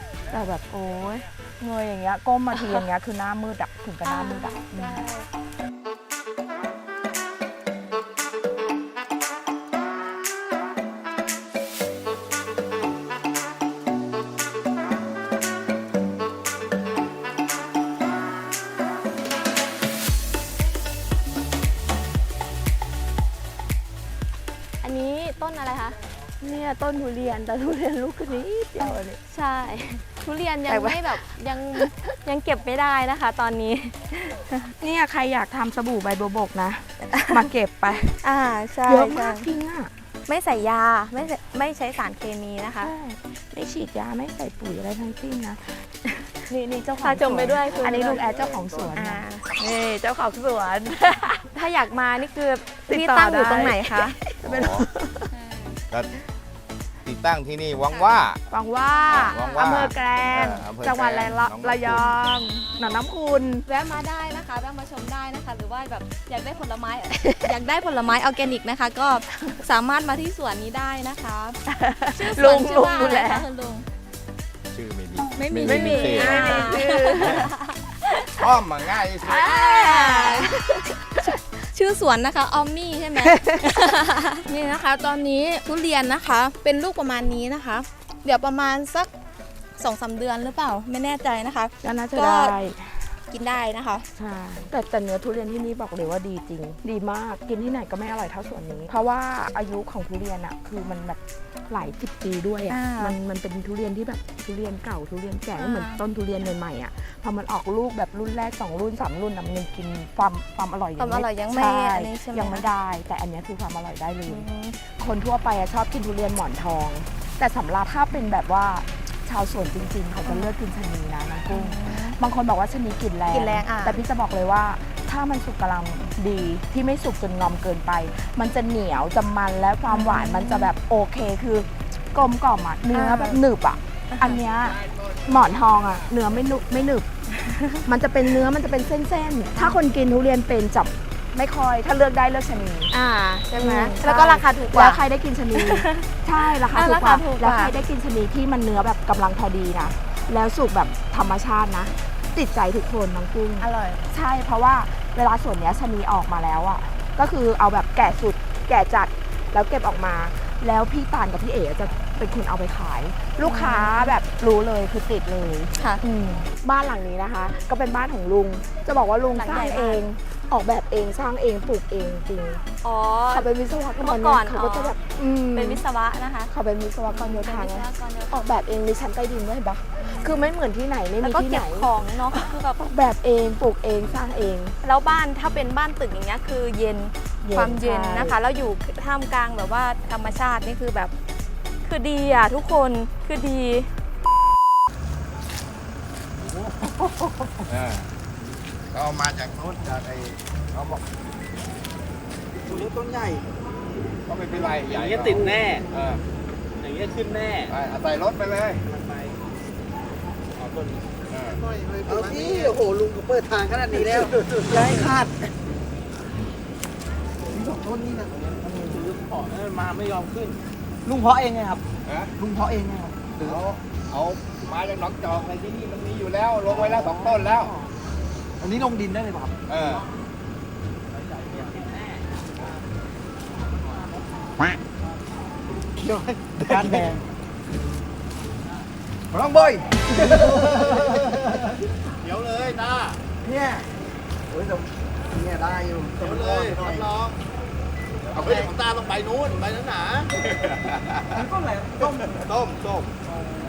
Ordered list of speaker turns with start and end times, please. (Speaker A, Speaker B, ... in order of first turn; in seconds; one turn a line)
Speaker A: 0.3-5.0
Speaker B: 4.0-5.3
Speaker B: 24.8-26.0
Speaker A: 26.4-29.2
Speaker B: 29.3-34.7
Speaker A: 30.7-31.2
Speaker A: 31.7-32.0
Speaker A: 34.8-38.2
Speaker B: 37.1-37.4
Speaker B: 38.1-39.5
Speaker A: 38.9-39.9
Speaker B: 40.3-42.9
Speaker A: 42.8-45.8
Speaker A: 46.5-51.5
Speaker B: 47.0-48.2
Speaker B: 48.9-49.5
Speaker B: 51.5-54.2
Speaker A: 52.9-55.3
Speaker C: 54.4-54.9
Speaker B: 55.3-55.8
Speaker C: 55.9-56.2
Speaker C: 57.0-58.4
Speaker A: 58.5-63.7
Speaker B: 58.9-59.9
Speaker C: 59.1-62.1
Speaker B: 63.7-71.6
Speaker A: 67.2-67.5
Speaker A: 71.7-73.5
Speaker B: 72.1-73.9
Speaker C: 74.7-77.5
Speaker B: 75.4-78.4
Speaker A: 75.6-77.5
Speaker C: 78.4-79.5
Speaker B: 79.2-80.7
Speaker A: 79.2-80.8
Speaker B: 81.2-89.1
Speaker A: 83.2-83.8
Speaker B: 89.8-92.6
Speaker A: 91.8-93.2
Speaker B: 93.3-94.1
Speaker A: 94.1-137.1
Speaker B: 102.7-103.2
Speaker B: 105.6-106.0
Speaker B: 111.0-112.7
Speaker B: 114.3-114.8
Speaker B: 120.2-120.5
Speaker B: 121.5-122.2
Speaker B: 123.3-124.0
Speaker B: 129.9-130.7
Speaker B: 132.9-133.4
Speaker B: 134.1-134.4
Speaker C: 134.6-135.9
Speaker B: 137.4-137.8
Speaker A: 137.8-142.9
Speaker B: 142.9-145.0
Speaker A: 143.6-172.6
Speaker B: 145.6-147.8
Speaker B: 153.6-154.0
Speaker B: 163.4-164.2
Speaker B: 165.8-166.0
Speaker B: 169.3-170.0
Speaker B: 172.8-173.5
Speaker A: 173.3-175.8
Speaker B: 174.0-175.0
Speaker B: 175.5-176.5
Speaker A: 176.5-184.8
Speaker B: 177.1-178.5
Speaker B: 180.0-180.5
Speaker B: 181.2-182.8
Speaker B: 184.8-191.1
Speaker A: 187.4-188.3
Speaker B: 191.8-193.9
Speaker C: 197.7-198.1
Speaker C: 198.9-201.0
Speaker C: 204.3-206.2
Speaker D: 204.9-205.8
Speaker D: 206.8-207.7
Speaker C: 207.7-208.8
Speaker D: 208.9-209.3
Speaker D: 210.6-211.0
Speaker C: 211.3-211.6
Speaker D: 211.8-212.8
Speaker E: 213.9-215.3
Speaker D: 213.9-214.9
Speaker E: 217.5-219.1
Speaker D: 218.9-220.6
Speaker E: 221.1-221.8
Speaker C: 222.1-222.3
Speaker E: 222.4-223.6
Speaker C: 223.4-227.7
Speaker E: 226.9-227.7
Speaker E: 228.6-229.6
Speaker C: 229.7-230.0
Speaker D: 231.4-231.8
Speaker E: 236.0-237.2
Speaker E: 239.3-241.2
Speaker D: 242.2-243.2
Speaker E: 243.4-243.8
Speaker D: 246.2-247.2
Speaker B: 248.4-248.7
Speaker D: 248.4-250.3
Speaker E: 251.3-252.4